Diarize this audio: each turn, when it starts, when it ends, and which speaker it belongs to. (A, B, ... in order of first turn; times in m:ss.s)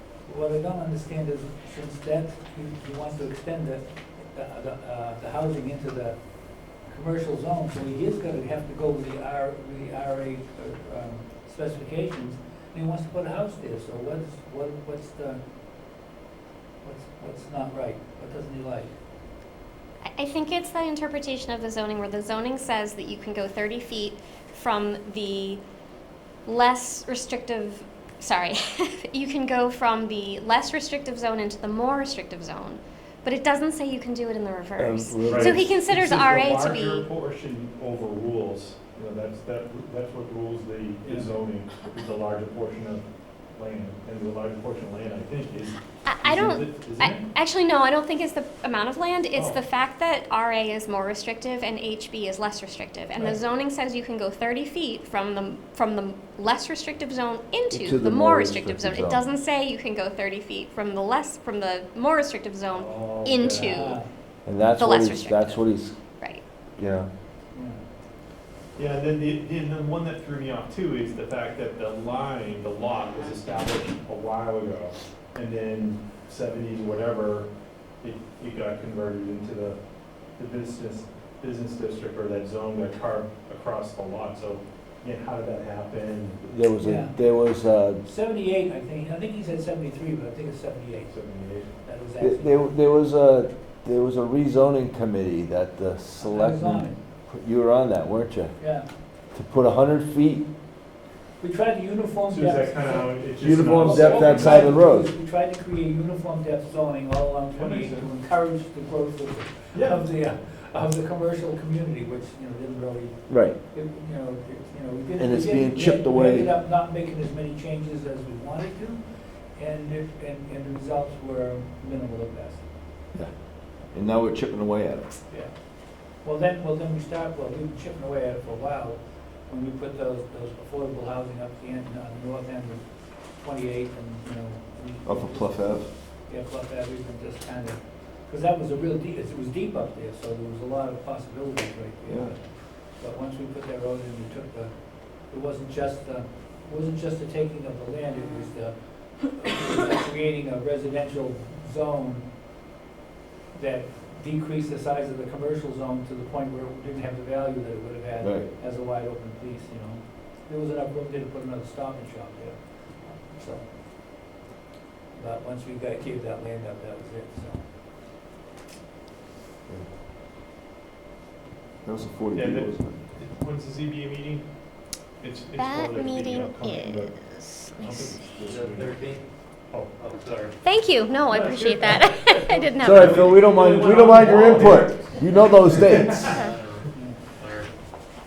0:00.2-0:15.4 A
0:16.8-0:18.9 A
0:20.1-0:25.6 B
0:26.5-0:37.1 B
0:34.8-0:35.7 C
0:35.2-0:47.3 D
0:46.0-1:04.0 B
0:49.3-0:49.6 D
0:53.2-0:53.4 D
0:57.7-0:59.2 C
1:02.7-1:03.9 D
1:03.7-1:04.1 A
1:04.5-1:05.9 C
1:04.8-1:06.4 B
1:06.8-1:07.1 C
1:07.5-1:07.8 A
1:08.8-1:17.5 D
1:18.0-1:19.8 D
1:20.4-1:26.4 D
1:26.4-1:28.0 C
1:26.8-1:27.2 A
1:28.0-1:31.1 A
1:31.1-1:31.8 D
1:31.8-1:32.7 A
1:32.2-1:38.6 C
1:36.2-1:37.0 A
1:38.6-1:38.9 A
1:39.3-1:40.5 C
1:41.4-1:59.0 A
1:42.3-1:44.8 D
1:43.4-1:45.1 C
1:47.5-1:48.1 D
1:49.7-1:50.0 D
1:53.3-1:53.6 C
1:55.2-1:56.5 C
1:59.6-2:02.7 A
2:03.9-2:05.2 C
2:06.2-2:32.3 A
2:15.0-2:15.9 C
2:22.1-2:22.4 C
2:33.5-2:43.7 A
2:38.2-2:38.5 C
2:45.1-2:47.7 A
2:51.8-2:53.1 C
2:52.4-2:54.4 D
2:55.2-2:59.0 D
2:55.6-2:58.1 B
2:58.4-2:59.2 E
2:59.7-3:00.3 D
3:00.0-3:00.6 E
3:00.6-3:03.3 B
3:01.3-3:06.5 D
3:02.8-3:06.3 C
3:04.4-3:04.7 E
3:05.4-3:07.7 E
3:06.9-3:07.2 A